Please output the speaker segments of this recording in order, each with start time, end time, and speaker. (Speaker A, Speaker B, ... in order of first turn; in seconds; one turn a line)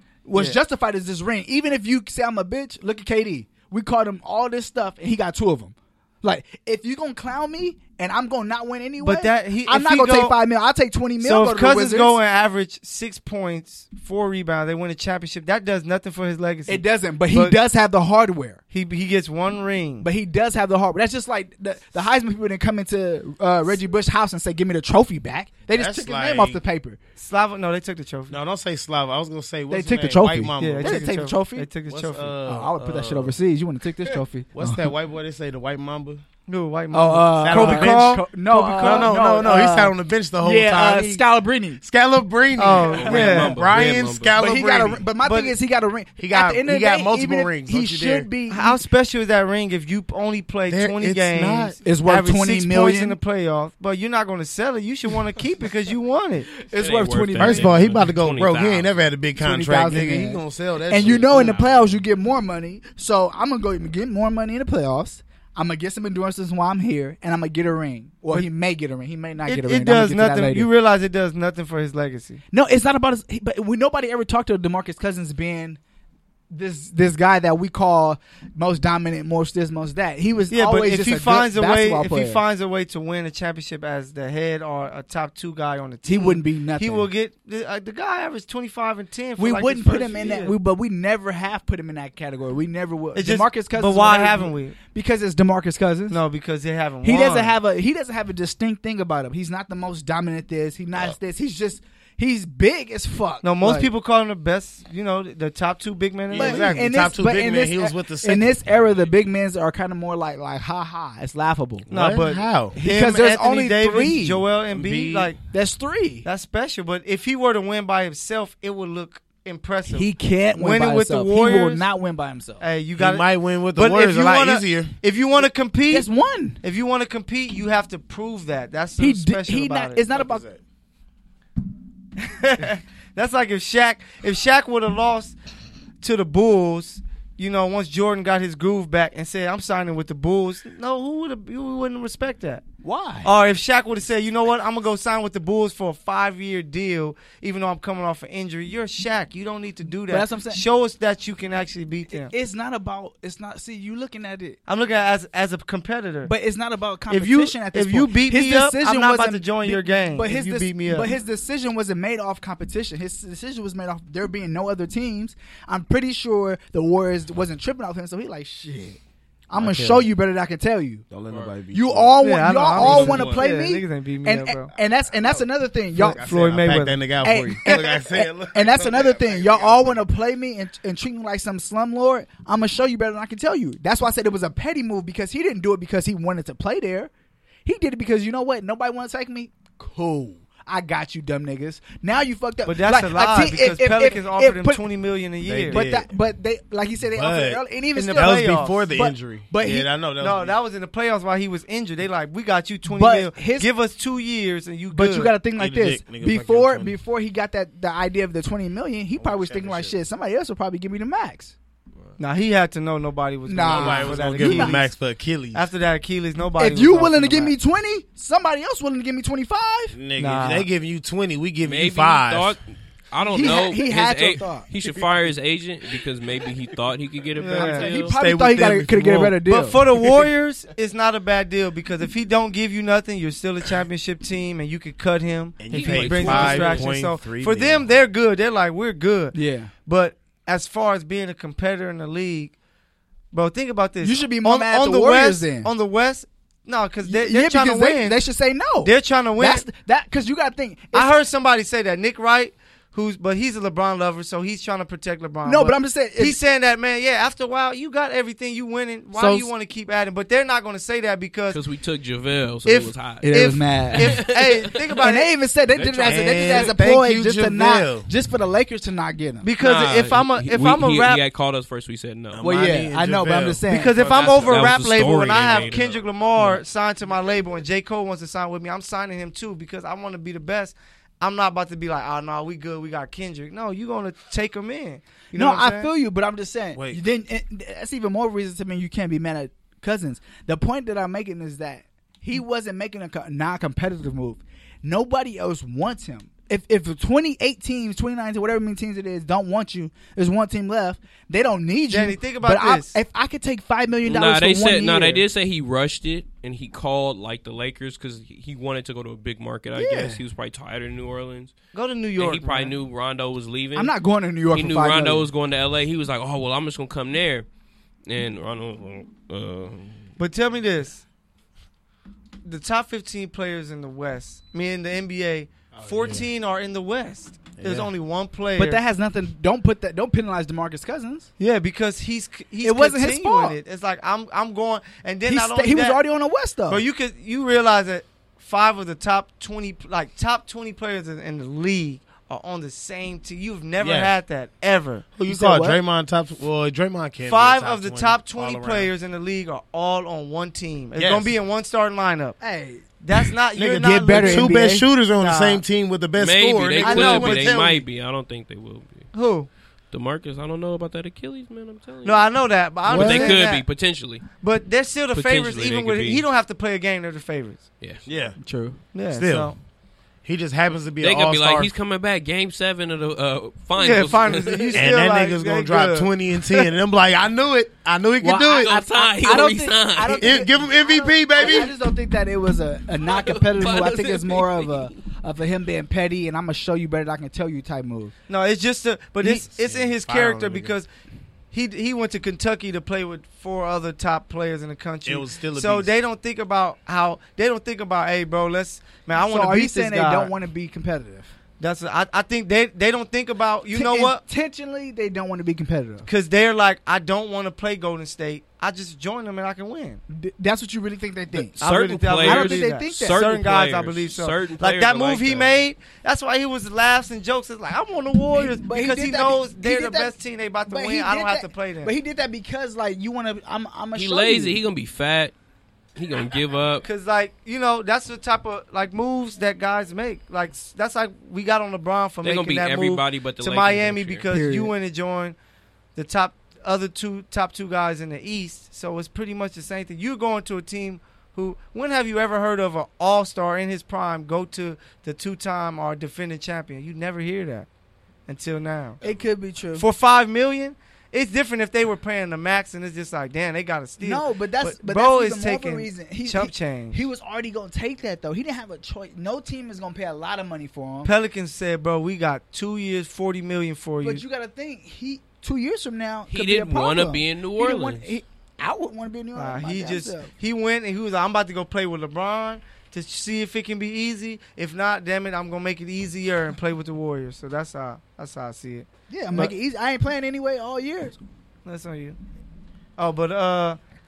Speaker A: 0.3-12.2
Speaker B: 9.0-10.4
Speaker B: 11.2-17.6
Speaker A: 16.7-18.6
Speaker B: 18.7-20.1
Speaker A: 20.0-27.0
Speaker C: 25.7-26.6
Speaker B: 27.2-28.4
Speaker C: 28.3-31.1
Speaker A: 29.7-31.7
Speaker B: 30.6-32.4
Speaker C: 31.9-33.4
Speaker A: 32.5-34.9
Speaker C: 34.5-36.2
Speaker B: 36.5-39.1
Speaker A: 36.9-41.8
Speaker C: 37.4-38.3
Speaker C: 38.8-45.1
Speaker B: 42.6-43.6
Speaker D: 42.8-44.3
Speaker A: 43.0-43.6
Speaker A: 44.3-48.8
Speaker B: 45.2-45.5
Speaker C: 46.2-48.3
Speaker B: 48.5-56.5
Speaker C: 50.7-51.8
Speaker A: 51.8-53.2
Speaker A: 56.6-57.8
Speaker D: 56.7-59.0
Speaker C: 57.4-62.0
Speaker A: 59.4-70.7
Speaker D: 61.0-61.6
Speaker B: 69.5-72.4
Speaker A: 72.5-75.8
Speaker A: 76.5-82.4
Speaker B: 80.5-90.5
Speaker A: 86.0-87.1
Speaker A: 89.4-96.2
Speaker B: 93.2-94.8
Speaker B: 96.1-97.6
Speaker A: 97.0-103.9
Speaker B: 103.4-106.9
Speaker C: 106.3-108.6
Speaker A: 106.3-111.9
Speaker C: 111.9-112.8
Speaker B: 111.9-115.4
Speaker A: 112.7-114.4
Speaker C: 114.7-115.3
Speaker A: 115.5-116.3
Speaker B: 116.2-121.9
Speaker A: 119.9-122.6
Speaker B: 122.6-126.1
Speaker C: 123.0-125.0
Speaker A: 125.9-126.6
Speaker B: 126.6-130.0
Speaker A: 129.0-130.5
Speaker C: 130.1-130.6
Speaker B: 132.2-135.3
Speaker B: 136.0-142.6
Speaker A: 142.8-143.3
Speaker B: 143.2-152.3
Speaker A: 150.1-150.6
Speaker A: 152.1-154.6
Speaker B: 154.7-156.3
Speaker A: 156.2-171.1
Speaker B: 157.1-161.1
Speaker C: 169.6-170.1
Speaker C: 171.1-172.2
Speaker A: 171.7-176.2
Speaker B: 172.2-174.7
Speaker C: 172.7-173.5
Speaker C: 175.1-180.1
Speaker B: 176.0-177.0
Speaker A: 177.2-187.1
Speaker A: 187.7-194.8
Speaker B: 192.7-195.8
Speaker C: 195.4-196.1
Speaker A: 195.7-199.9
Speaker C: 197.1-200.6
Speaker B: 197.9-198.9
Speaker B: 200.2-205.3
Speaker A: 202.9-203.7
Speaker A: 204.9-211.5
Speaker C: 205.6-207.0
Speaker C: 209.2-210.0
Speaker B: 212.2-214.9
Speaker A: 213.5-214.8
Speaker C: 213.6-215.7
Speaker B: 215.5-217.5
Speaker A: 216.6-220.0
Speaker C: 219.9-222.6
Speaker B: 220.2-220.7
Speaker D: 221.6-228.2
Speaker A: 223.3-224.7
Speaker B: 227.4-227.9
Speaker A: 227.6-229.8
Speaker C: 227.9-229.4
Speaker B: 229.5-239.3
Speaker C: 235.6-237.9
Speaker D: 235.7-236.9
Speaker A: 239.3-239.7
Speaker B: 239.9-242.5
Speaker B: 243.3-248.2
Speaker A: 244.0-245.7
Speaker A: 247.0-251.1
Speaker B: 248.8-249.7
Speaker B: 250.9-261.6
Speaker A: 255.4-256.4
Speaker C: 259.2-259.4
Speaker A: 259.2-259.5
Speaker D: 261.5-264.8
Speaker B: 262.6-265.3
Speaker A: 263.2-264.2
Speaker A: 265.0-269.5
Speaker D: 265.7-266.6
Speaker C: 266.0-268.1
Speaker B: 269.4-271.2
Speaker D: 269.6-272.5
Speaker C: 272.3-275.9
Speaker A: 272.4-274.0
Speaker B: 273.7-285.9
Speaker D: 274.0-276.6
Speaker A: 285.3-305.2
Speaker C: 286.8-287.0
Speaker B: 301.9-303.0
Speaker D: 304.1-311.6
Speaker A: 309.8-310.2
Speaker B: 311.7-312.8
Speaker D: 312.2-313.9
Speaker A: 313.8-315.3
Speaker D: 314.5-317.5
Speaker D: 318.1-320.1
Speaker B: 320.2-321.1
Speaker B: 322.4-328.8
Speaker C: 325.7-326.3
Speaker C: 327.6-327.9
Speaker A: 328.6-331.3
Speaker B: 331.4-336.0
Speaker A: 332.6-333.6
Speaker A: 335.3-336.8
Speaker B: 336.7-345.1
Speaker C: 343.8-344.1
Speaker C: 345.2-348.9
Speaker A: 345.2-345.8
Speaker B: 347.2-352.4
Speaker C: 351.0-351.4
Speaker A: 352.4-352.9
Speaker B: 353.0-355.6
Speaker C: 353.5-357.8
Speaker A: 353.7-354.9
Speaker D: 356.2-359.1
Speaker B: 356.8-357.7
Speaker B: 359.1-359.5
Speaker D: 359.9-364.3
Speaker B: 362.0-363.7
Speaker C: 362.9-363.4
Speaker B: 364.4-367.7
Speaker D: 365.1-366.2
Speaker D: 367.8-368.1
Speaker C: 368.1-368.4
Speaker A: 368.4-368.8
Speaker B: 368.9-369.6
Speaker C: 369.1-369.6
Speaker C: 370.2-371.7
Speaker D: 371.0-374.9
Speaker B: 373.8-376.1
Speaker C: 374.7-378.8
Speaker A: 378.2-388.1
Speaker D: 378.5-380.4
Speaker C: 380.2-381.7
Speaker D: 383.0-385.0
Speaker B: 388.3-390.9
Speaker C: 389.2-390.8
Speaker B: 391.5-400.3
Speaker C: 395.1-395.9
Speaker A: 399.2-401.3
Speaker B: 401.6-404.2
Speaker A: 403.7-406.1
Speaker B: 406.1-410.0
Speaker A: 410.1-411.6
Speaker B: 411.3-421.9
Speaker D: 411.6-415.6
Speaker A: 412.2-413.2
Speaker A: 418.3-420.1
Speaker A: 420.7-424.6
Speaker D: 423.9-425.3
Speaker D: 426.0-426.9
Speaker B: 426.8-435.4
Speaker D: 432.2-434.3
Speaker A: 434.3-434.7
Speaker B: 435.9-447.7
Speaker B: 448.3-449.0
Speaker A: 449.0-449.9
Speaker B: 449.8-457.0
Speaker A: 454.0-461.1
Speaker B: 461.1-464.2
Speaker A: 464.0-470.3
Speaker D: 466.3-468.1
Speaker B: 469.4-479.5
Speaker A: 479.1-481.2
Speaker B: 481.6-482.2
Speaker B: 483.0-483.8